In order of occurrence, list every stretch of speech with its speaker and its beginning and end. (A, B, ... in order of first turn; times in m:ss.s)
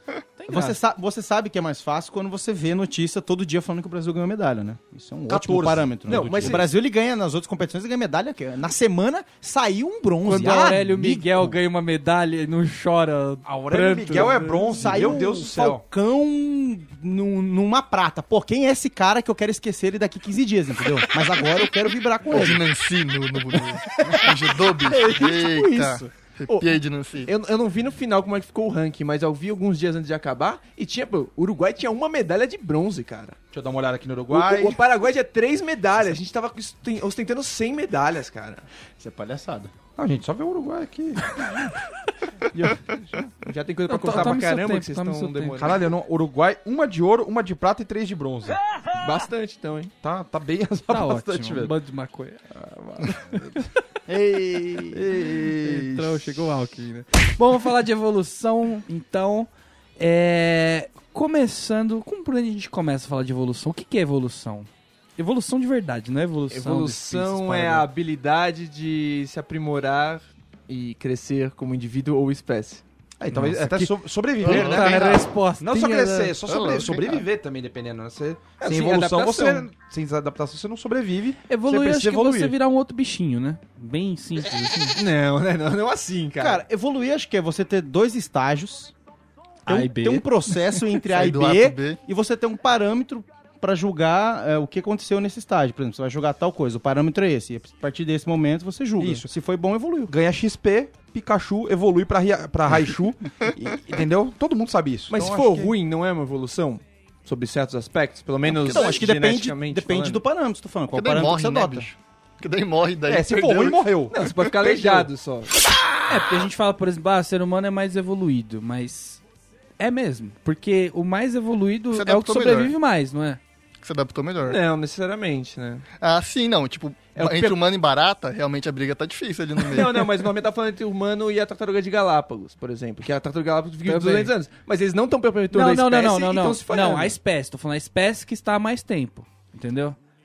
0:00.4-0:00.8 A
0:00.5-0:11.6 B
0:05.3-0:06.6 C
0:06.1-0:06.7 D
0:10.2-0:15.1 A
0:13.4-0:15.8 C
0:14.1-0:22.7 B
0:22.3-0:27.3 E
0:24.9-0:25.9 D
0:26.5-0:33.4 D
0:33.5-0:34.8 C
0:34.3-0:38.6 D
0:39.0-0:39.7 B
0:40.0-0:41.6 C
0:43.4-0:45.8 D
0:43.9-0:45.7 A
0:45.6-0:48.6 C
0:48.9-0:49.9 D
0:50.0-0:51.7 C
0:50.9-0:53.6 A
0:54.1-0:54.9 B
0:55.1-0:56.1 C
0:55.4-1:07.8 A
1:06.5-1:12.8 D
1:13.2-1:22.5 C
1:13.3-1:16.4 A
1:14.4-1:15.2 E
1:16.5-1:17.2 E
1:18.6-1:19.7 D
1:21.5-1:25.0 A
1:25.0-1:26.6 D
1:26.4-1:28.9 B
1:29.6-1:30.2 A
1:29.7-1:40.1 B
1:31.1-1:32.0 E
1:39.0-1:39.2 C
1:40.1-1:45.7 C
1:45.1-1:50.2 D
1:48.5-1:51.9 B
1:50.9-1:53.9 E
1:53.0-1:55.1 C
1:54.1-1:55.5 D
1:56.1-1:59.2 A
1:59.8-2:03.4 A
2:01.9-2:02.7 E
2:03.8-2:04.6 E
2:04.4-2:05.8 D
2:06.0-2:10.1 E
2:07.2-2:07.6 D
2:09.6-2:17.2 D
2:13.8-2:14.3 A
2:15.5-2:20.0 A